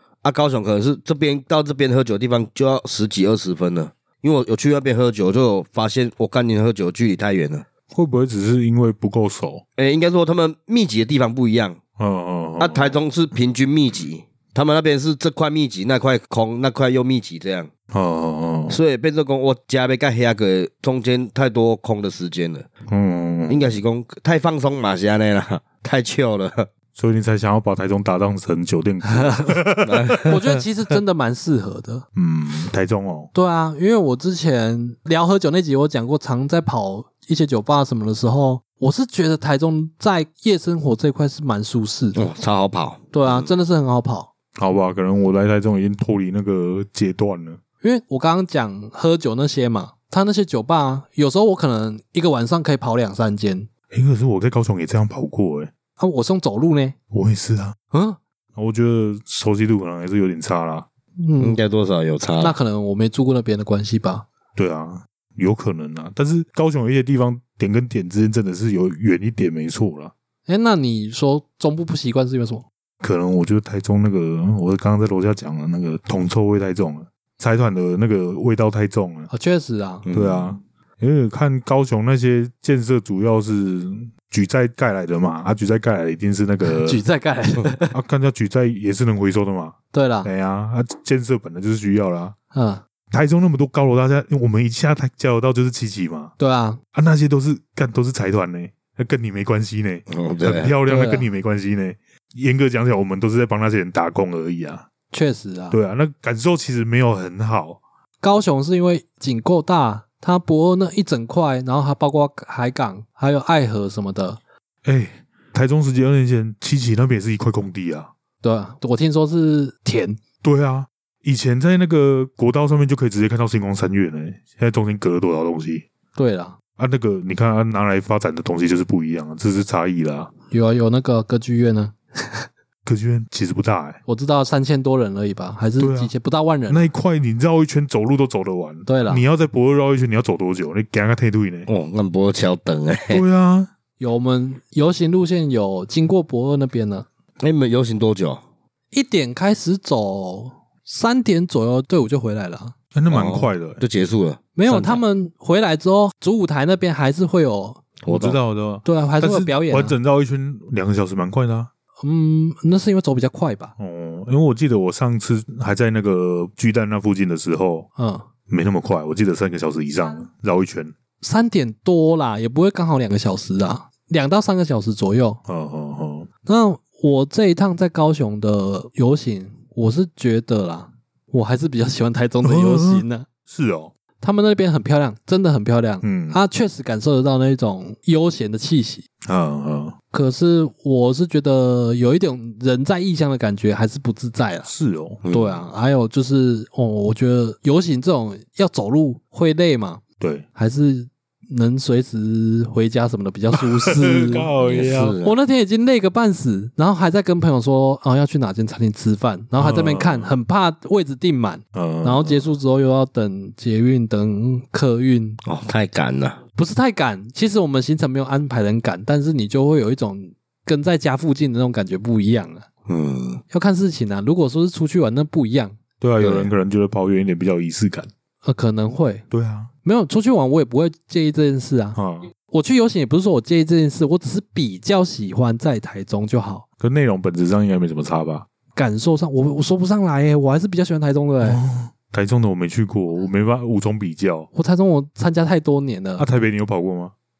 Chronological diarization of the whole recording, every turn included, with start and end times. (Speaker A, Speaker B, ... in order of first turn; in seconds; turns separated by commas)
Speaker A: 0.2-7.7, Speaker B: 7.9-9.6, Speaker A: 9.8-11.8, Speaker B: 12.0-13.0, Speaker A: 12.6-17.7, Speaker B: 17.9-18.8, Speaker A: 18.7-22.7, Speaker B: 22.9-23.8, Speaker A: 23.5-26.7, Speaker B: 26.9-30.4, Speaker A: 29.9-30.4, Speaker C: 30.2-32.0, Speaker B: 32.2-33.3, Speaker C: 33.3-42.2, Speaker A: 42.1-43.5, Speaker C: 43.1-44.3, Speaker B: 44.6-47.6, Speaker C: 47.8-53.7, Speaker B: 53.9-55.7, Speaker C: 56.0-57.0, Speaker B: 57.1-57.8, Speaker C: 57.9-58.2, Speaker B: 58.6-60.9, Speaker C: 61.2-61.6, Speaker A: 61.4-62.6, Speaker C: 62.4-64.2, Speaker B: 64.6-70.1, Speaker C: 70.5-72.7, Speaker B: 73.0-79.3, Speaker C: 79.3-80.0, Speaker A: 80.0-80.6, Speaker B: 80.1-87.0, Speaker C: 86.7-87.9, Speaker B: 87.9-92.3, Speaker C: 89.9-90.3, Speaker C: 92.5-92.8, Speaker B: 93.1-96.3, Speaker C: 96.4-96.8, Speaker B: 96.9-104.8, Speaker A: 100.1-100.7, Speaker C: 100.9-101.3, Speaker C: 105.1-105.8, Speaker B: 105.7-107.8, Speaker C: 108.2-114.4, Speaker B: 114.8-118.1, Speaker C: 118.4-120.2, Speaker B: 120.4-125.9, Speaker C: 126.2-126.6, Speaker B: 126.8-130.3, Speaker C: 130.5-132.5, Speaker B: 132.8-134.0, Speaker C: 134.1-136.9, Speaker B: 135.8-136.1, Speaker B: 136.7-141.7, Speaker C: 138.9-139.2, Speaker A: 141.7-143.2, Speaker B: 143.1-143.7, Speaker C: 144.0-147.1, Speaker A: 147.4-148.4, Speaker C: 148.9-152.8, Speaker B: 152.9-153.8, Speaker A: 153.1-155.0, Speaker C: 154.6-157.9, Speaker A: 158.0-158.4, Speaker B: 158.1-161.7, Speaker C: 158.8-159.9, Speaker C: 162.0-163.7, Speaker B: 163.8-167.9, Speaker C: 168.0-168.3, Speaker B: 168.5-170.9, Speaker C: 171.2-175.4, Speaker B: 175.5-176.3, Speaker C: 176.5-183.3, Speaker B: 182.4-183.9, Speaker C: 184.2-189.0, Speaker B: 186.0-186.4, Speaker B: 189.2-189.9, Speaker C: 190.1-194.7, Speaker B: 194.7-195.2, Speaker A: 195.2-195.6, Speaker C: 195.3-200.0, Speaker B: 200.2-200.4, Speaker C: 200.6-204.5, Speaker B: 203.9-205.2, Speaker A: 204.6-205.3, Speaker C: 205.2-215.4, Speaker B: 209.6-210.3, Speaker B: 211.7-212.5, Speaker A: 215.4-216.4, Speaker C: 216.6-222.7, Speaker A: 222.9-223.4, Speaker C: 223.5-225.8, Speaker B: 226.0-228.1, Speaker A: 226.2-226.5, Speaker C: 228.4-229.2, Speaker B: 229.3-229.7, Speaker C: 229.8-236.6, Speaker B: 232.0-232.3, Speaker B: 236.8-238.5, Speaker C: 238.8-241.6, Speaker B: 241.4-244.5, Speaker C: 244.5-246.2, Speaker B: 246.2-247.1